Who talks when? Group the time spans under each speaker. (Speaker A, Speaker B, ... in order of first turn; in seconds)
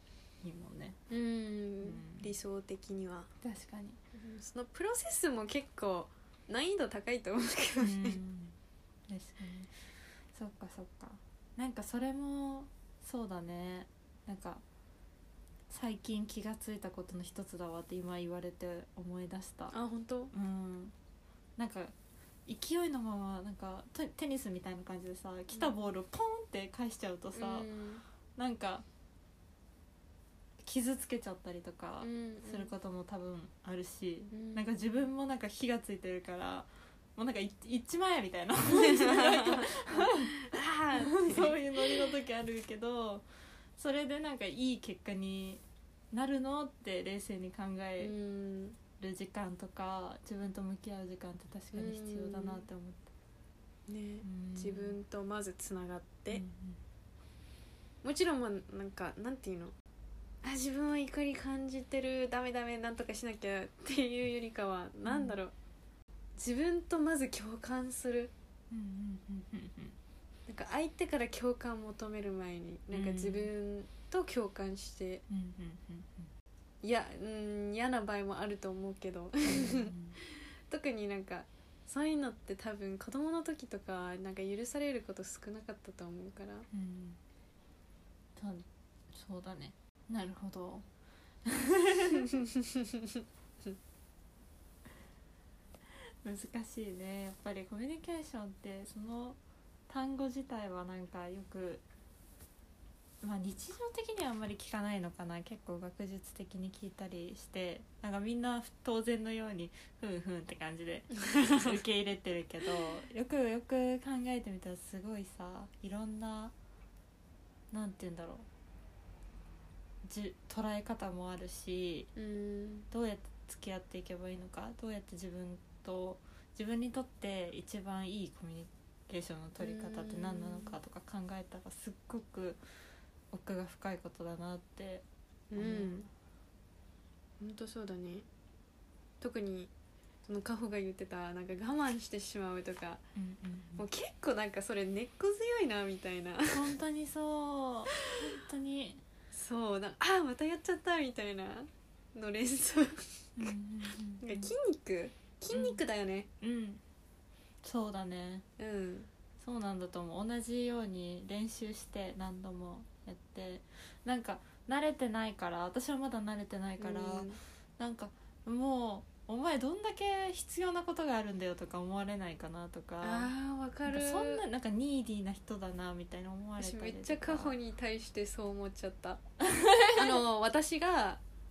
Speaker A: 0.4-1.0, 1.8-2.3, 3.4-4.0, 7.8-8.6, 9.1-9.8, 10.3-14.6, 15.7-19.7, 20.3-20.9, 21.6-21.9, 22.4-27.7, 28.4-28.9, 30.6-43.2, 43.8-48.1, 49.0-53.1, 54.2-55.0, 56.3-56.8, 65.0-65.4, 68.7-70.0, 72.9-73.5, 75.3-76.3, 79.4-80.2, 86.7-87.2, 88.3-90.8, 91.4-92.4, 96.2-101.8, 103.2-116.5, 117.7-118.5, 120.0-122.1, 122.9-132.6, 133.3-135.0, 135.6-136.1, 143.1-143.8, 146.5-149.0, 153.4-154.5, 155.5-155.8, 156.4-156.8, 157.6-158.4, 159.4-173.3, 173.9-177.6, 179.4-180.2
Speaker B: 1.1-3.3, 4.1-8.2, 19.7-20.3, 27.4-28.0, 32.0-32.7, 34.3-34.7, 38.7-42.1, 48.0-48.8, 51.7-52.6, 53.9-56.4, 58.0-59.7, 60.4-65.5, 66.4-68.3, 70.5-75.2, 76.8-79.9, 80.7-86.7, 92.2-93.2, 111.2-111.7, 122.2-122.9, 129.6-130.8, 135.5-136.1, 137.4-138.2, 139.2-139.7, 140.2-143.0, 143.8-146.7, 149.3-153.5, 154.2-156.3, 158.6-159.1, 166.8-167.4, 173.0-174.4, 176.6-179.2, 179.9-181.2